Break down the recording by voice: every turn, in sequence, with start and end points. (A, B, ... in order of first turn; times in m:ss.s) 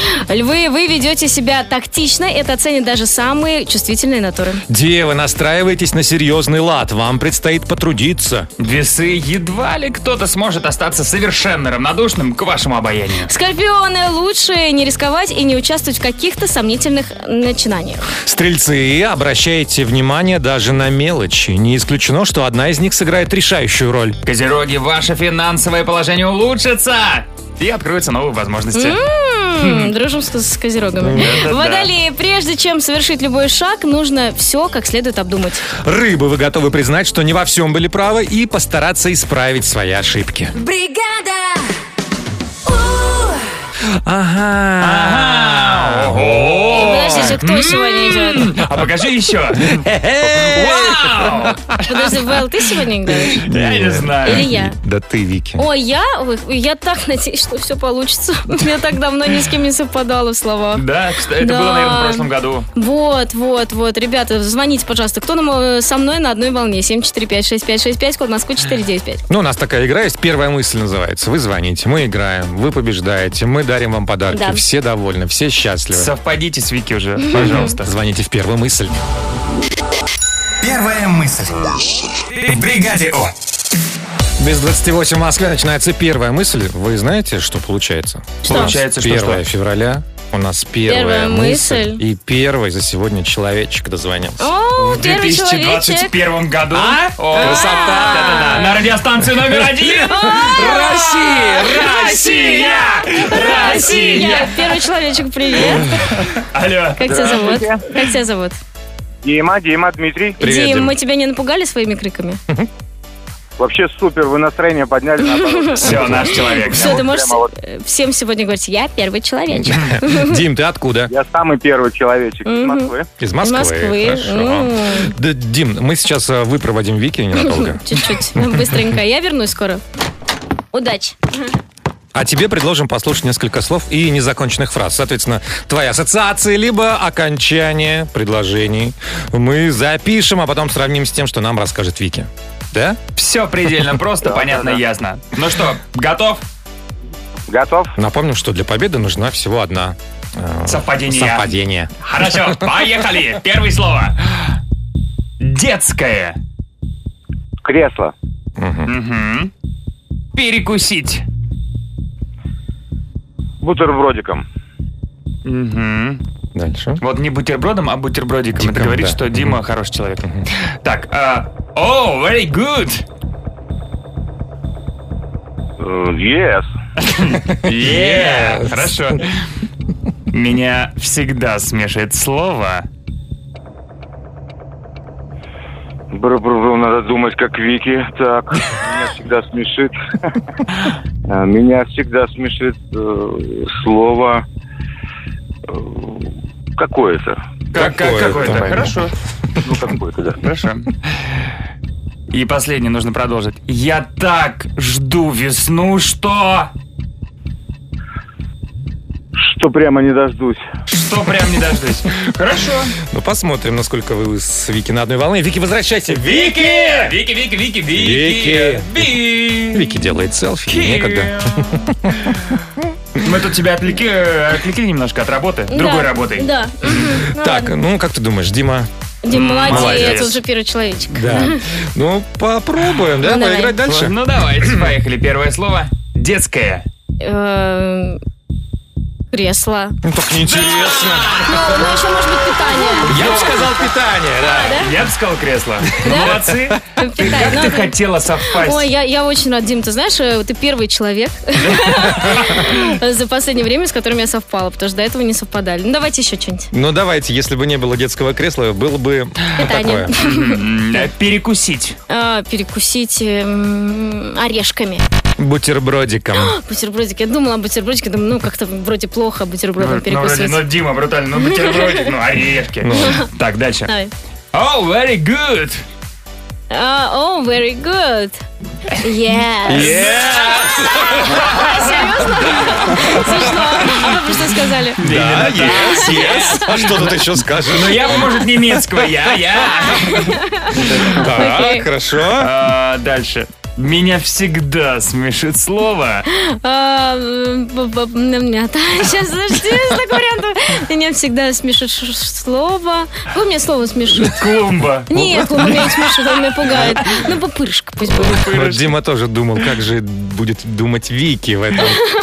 0:00.2-0:04.6 A
0:04.7-0:08.5 B
0:08.6-0:13.3 C
0:13.3-0:18.1 A
0:18.2-0:24.2 B
0:24.2-0:29.0 C
0:28.7-0:35.6 A
0:29.6-0:29.9 C
0:31.0-0:31.4 B
0:31.1-0:31.9 C
0:35.8-0:40.6 B
0:40.5-0:41.7 D
0:42.7-0:43.4 D
0:44.0-0:47.4 B
0:44.8-0:52.1 C
0:46.7-0:48.5 A
0:49.6-0:51.4 B
0:51.9-0:53.4 A
0:53.4-0:55.6 B
0:53.4-0:54.5 C
0:54.2-0:54.7 A
0:55.6-1:00.8 A
1:00.7-1:02.7 C
1:01.4-1:02.2 A
1:02.7-1:09.2 A
1:09.3-1:16.1 B
1:14.3-1:14.6 A
1:15.9-1:17.9 C
1:17.3-1:19.0 B
1:20.6-1:21.8 E
1:22.4-1:23.3 E
1:24.4-1:34.5 B
1:28.4-1:28.7 A
1:28.4-1:29.4 C
1:30.9-1:32.0 A
1:34.4-1:36.1 A
1:34.8-1:44.6 C
1:36.7-1:38.7 B
1:37.4-1:38.7 A
1:39.6-1:42.5 B
1:40.1-1:45.8 A
1:46.5-1:47.4 C
1:47.0-1:48.6 A
1:47.1-1:47.8 F
1:49.2-1:50.4 F
1:50.4-1:50.9 B
1:50.4-1:52.4 A
1:53.6-1:56.0 F
1:55.2-2:00.4 A
1:55.8-1:57.1 C
1:55.9-1:56.3 B
1:56.7-1:57.5 F
1:59.6-2:01.1 B
2:01.1-2:03.1 F
2:02.4-2:05.1 A
2:03.2-2:07.8 B
2:07.4-2:09.8 A
2:08.4-2:08.8 B
2:10.7-2:11.4 A
2:12.1-2:23.0 B
2:23.2-2:26.4 C
2:24.2-2:24.8 F
2:27.5-2:27.9 F
2:28.0-2:32.7 B
2:30.7-2:34.3 C
2:35.4-2:36.4 C
2:37.6-2:38.1 F
2:38.6-2:38.9 B
2:38.9-2:39.5 C
2:40.3-2:41.2 C
2:43.6-2:44.4 F
2:45.4-2:46.2 C
2:46.5-2:47.0 B
2:47.0-2:53.0 C
2:48.6-2:49.6 B
2:55.8-2:56.7 F
2:57.0-2:59.4 C
2:57.6-2:58.9 B
3:00.3-3:02.8 C
3:06.1-3:09.9 F
3:11.3-3:14.4 F
3:15.7-3:17.4 F
3:17.7-3:19.1 C
3:17.7-3:19.0 B
3:19.6-3:20.4 F
3:20.4-3:20.9 C
3:22.3-3:26.7 C
3:29.4-3:30.6 F
3:30.9-3:32.9 C
3:33.1-3:37.1 B
3:36.1-3:40.0 C
3:37.9-3:39.0 B
3:39.7-3:42.4 B
3:40.7-3:41.6 C
3:43.2-3:46.5 C
3:45.7-3:47.7 A
3:47.3-3:48.9 B
3:49.2-3:51.6 A
3:49.3-3:50.4 C
3:49.7-3:50.3 B
3:51.1-3:54.8 B
3:53.2-3:53.7 A
3:53.8-3:56.8 C
3:57.2-3:58.2 A
3:59.3-4:00.0 A
4:00.0-4:01.7 B
4:00.5-4:01.4 C
4:01.4-4:03.2 A
4:03.0-4:03.6 C
4:03.0-4:04.9 B
4:04.5-4:04.9 A
4:04.6-4:08.9 C
4:06.0-4:06.4 A
4:06.0-4:06.5 B
4:07.0-4:07.9 A
4:07.2-4:07.6 B
4:08.6-4:16.7 A
4:16.7-4:20.1 B
4:19.6-4:20.5 A
4:20.2-4:22.0 C
4:22.1-4:25.0 A
4:25.4-4:26.5 B
4:26.4-4:30.6 A
4:29.8-4:33.9 C
4:31.5-4:32.1 A
4:32.8-4:33.2 B
4:34.5-4:35.8 C
4:36.7-4:38.4 A
4:39.0-4:40.2 A
4:39.7-4:41.4 B
4:39.7-4:41.8 C
4:41.1-4:45.0 A
4:43.3-4:43.6 B
4:45.0-4:51.3 C
4:45.0-4:48.3 B
4:45.6-4:46.6 A
4:49.9-4:50.8 A
4:51.1-4:52.5 B
4:51.4-4:51.9 A
4:52.3-4:56.2 C
4:56.3-5:04.4 A
5:04.2-5:05.1 C
5:05.1-5:08.4 A
5:08.1-5:08.9 C
5:08.2-5:12.0 B